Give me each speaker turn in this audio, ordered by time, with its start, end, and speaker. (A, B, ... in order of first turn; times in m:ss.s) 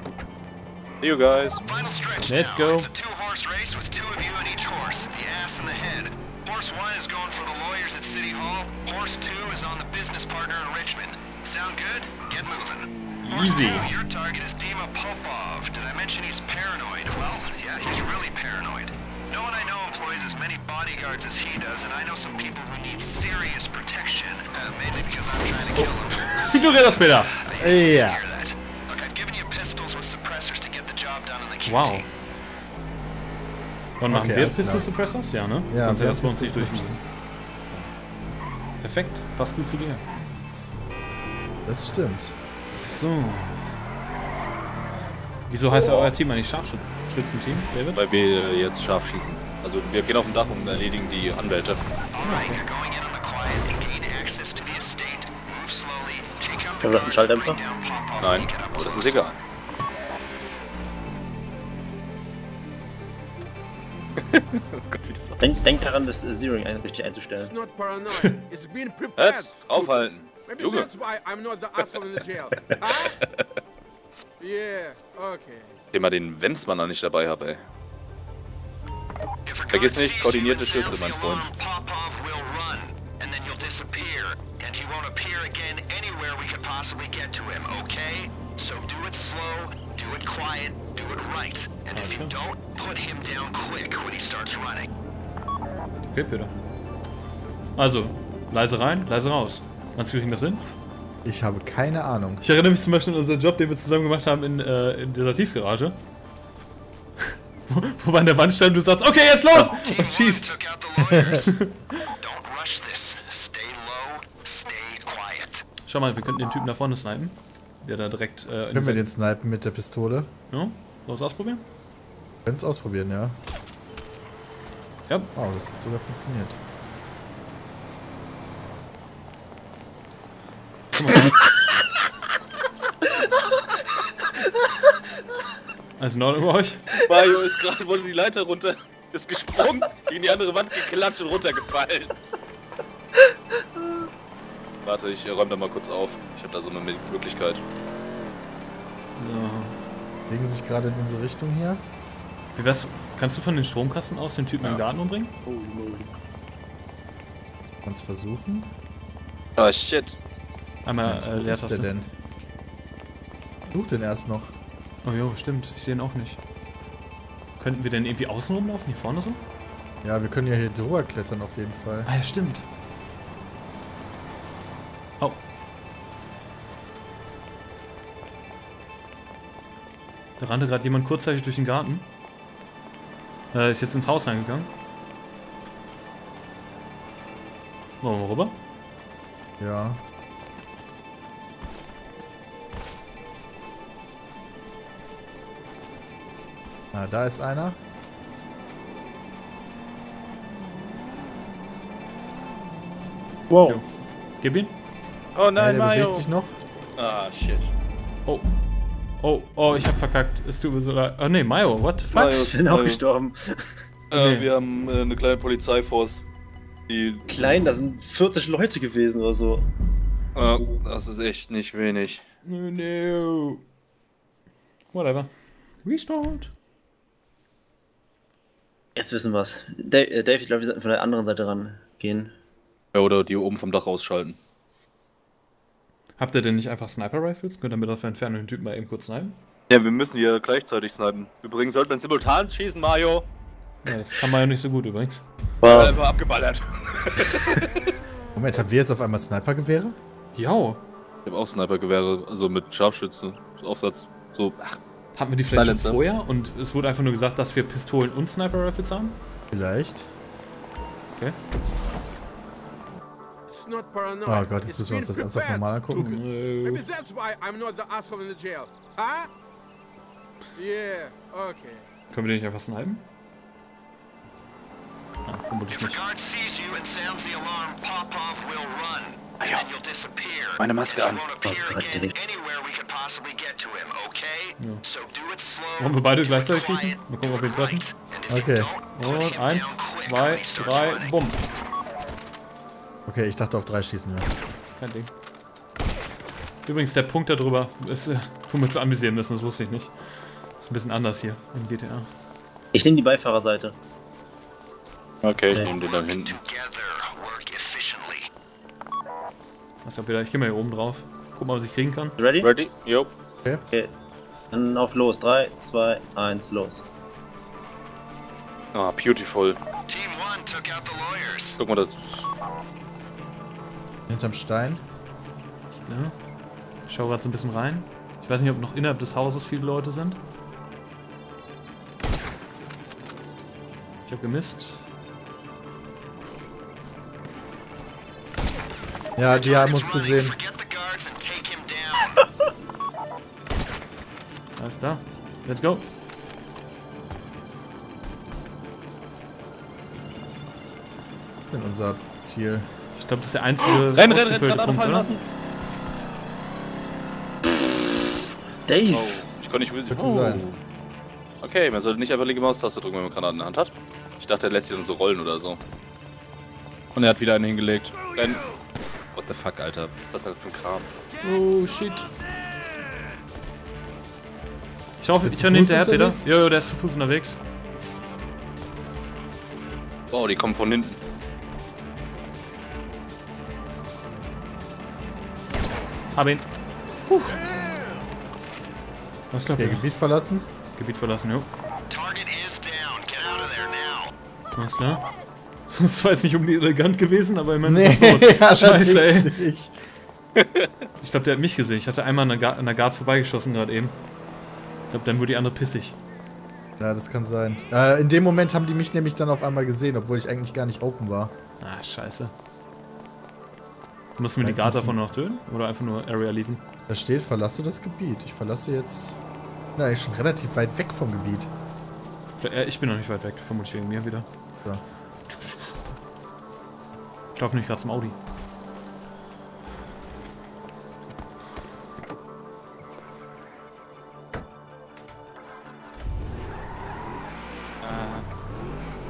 0:01.0-0:01.6 A
0:01.6-0:32.1 B
0:02.3-0:02.9 C
0:13.2-0:13.9 C
0:25.8-0:27.4 C
0:27.6-0:28.2 D
0:31.6-0:32.1 C
0:34.0-0:37.0 C
0:34.1-0:34.9 D
0:35.7-0:37.0 D
0:38.8-0:40.0 C
0:41.6-0:42.4 D
0:42.8-0:43.6 C
0:45.5-0:48.0 C
0:48.0-0:51.8 A
0:52.1-0:59.2 B
0:52.2-0:52.6 C
0:56.8-0:57.6 E
0:58.2-0:59.4 A
1:04.2-1:05.6 A
1:05.4-1:07.5 E
1:07.5-1:13.2 F
1:09.2-1:10.9 A
1:12.7-1:13.4 A
1:14.4-1:15.8 F
1:15.9-1:17.6 A
1:19.5-1:34.9 B
1:19.7-1:21.5 A
1:31.9-1:32.3 C
1:36.1-1:36.5 C
1:37.8-1:40.6 C
1:41.2-1:42.4 D
1:42.4-1:46.0 C
1:47.2-1:50.6 C
1:49.5-1:51.5 B
1:51.0-1:51.4 D
1:51.4-1:52.1 C
1:52.2-1:55.6 B
1:55.9-1:59.1 C
1:58.7-2:00.3 D
2:00.5-2:01.6 C
2:02.4-2:03.4 D
2:05.3-2:06.6 D
2:10.9-2:11.4 C
2:16.0-2:16.8 C
2:17.0-2:22.1 A
2:24.8-2:27.6 A
2:29.2-2:29.8 C
2:30.3-2:31.8 D
2:32.6-2:35.3 C
2:35.4-2:36.1 E
2:37.8-2:38.7 D
2:39.6-2:40.2 A
2:40.8-2:41.9 C
2:41.0-2:42.1 D
2:43.7-2:44.5 D
2:45.0-2:46.4 C
2:47.6-2:49.4 C
2:50.0-2:52.1 D
2:52.1-2:52.6 C
3:00.4-3:02.1 C
3:03.5-3:04.7 C
3:08.0-3:08.6 C
3:09.6-3:10.0 D
3:16.9-3:17.8 D
3:23.5-3:23.8 E
3:24.4-3:24.7 C
3:25.4-3:26.3 A
3:25.6-3:26.5 D
3:27.0-3:27.7 A
3:29.2-3:32.4 C
3:32.1-3:33.0 A
3:32.1-3:33.6 E
3:34.1-3:36.2 A
3:34.1-3:34.5 C
3:36.9-3:37.2 A
3:37.3-3:39.6 E
3:40.4-3:42.2 A
3:42.4-3:43.6 C
3:44.9-3:45.3 C
3:45.8-3:46.5 C
3:49.0-3:52.3 E
3:52.9-3:54.4 A
3:56.2-3:59.4 C
3:59.7-4:03.2 A
4:03.8-4:05.2 C
4:05.6-4:05.9 E
4:05.6-4:07.9 A
4:08.4-4:10.0 D
4:10.4-4:10.8 C
4:11.3-4:14.8 A
4:15.2-4:19.2 C
4:15.5-4:16.0 A
4:19.5-4:20.1 D
4:23.5-4:29.3 F
4:24.3-4:26.1 D
4:25.9-4:26.8 C
4:30.6-4:31.9 F
4:32.1-4:33.0 C
4:35.3-4:36.0 C
4:35.7-4:51.1 B
4:39.4-4:39.6 A
4:40.6-4:41.2 A
4:41.4-4:42.1 E
4:45.8-4:47.8 C
4:48.3-4:48.7 D
4:49.0-4:51.4 C
4:53.1-4:54.3 D
4:54.8-4:55.1 C
4:56.6-5:02.1 C
5:02.7-5:03.8 E
5:05.2-5:06.4 A
5:06.2-5:08.3 B
5:09.8-5:12.2 C
5:12.2-5:12.5 E
5:12.4-5:13.1 A
5:14.5-5:16.8 E
5:18.7-5:19.6 A
5:19.9-5:21.6 B
5:21.6-5:22.3 A
5:24.1-5:24.8 D
5:25.7-5:26.1 C
5:26.9-5:30.2 C
5:34.1-5:34.8 C
5:39.2-5:40.4 D
5:39.3-5:42.3 B
5:44.6-5:45.8 C
5:51.5-5:52.7 D
5:53.0-5:55.2 C
5:53.9-5:55.2 A
5:58.7-5:59.2 E
5:58.9-6:00.6 A
5:59.9-6:00.4 D
6:01.4-6:05.6 A
6:07.0-6:08.4 A
6:09.1-6:10.9 A
6:11.2-6:12.1 C
6:15.0-6:17.4 C
6:15.2-6:16.2 D
6:20.1-6:21.0 A
6:26.2-6:26.4 C
6:27.1-6:27.4 C
6:29.3-6:29.9 C
6:29.6-6:30.5 D
6:30.8-6:31.5 C
6:31.9-6:34.1 B
6:34.6-6:35.1 C
6:35.7-6:39.4 C
6:37.6-6:39.7 D
6:40.4-6:40.7 A
6:41.0-6:44.0 C
6:44.9-6:46.0 C
6:46.8-6:51.3 D
6:51.6-6:52.3 C
6:54.2-6:56.6 C
6:54.4-6:55.0 D
6:56.9-6:59.2 D
6:59.8-7:01.5 D
7:02.4-7:04.3 C
7:07.4-7:08.2 C
7:17.8-7:18.2 A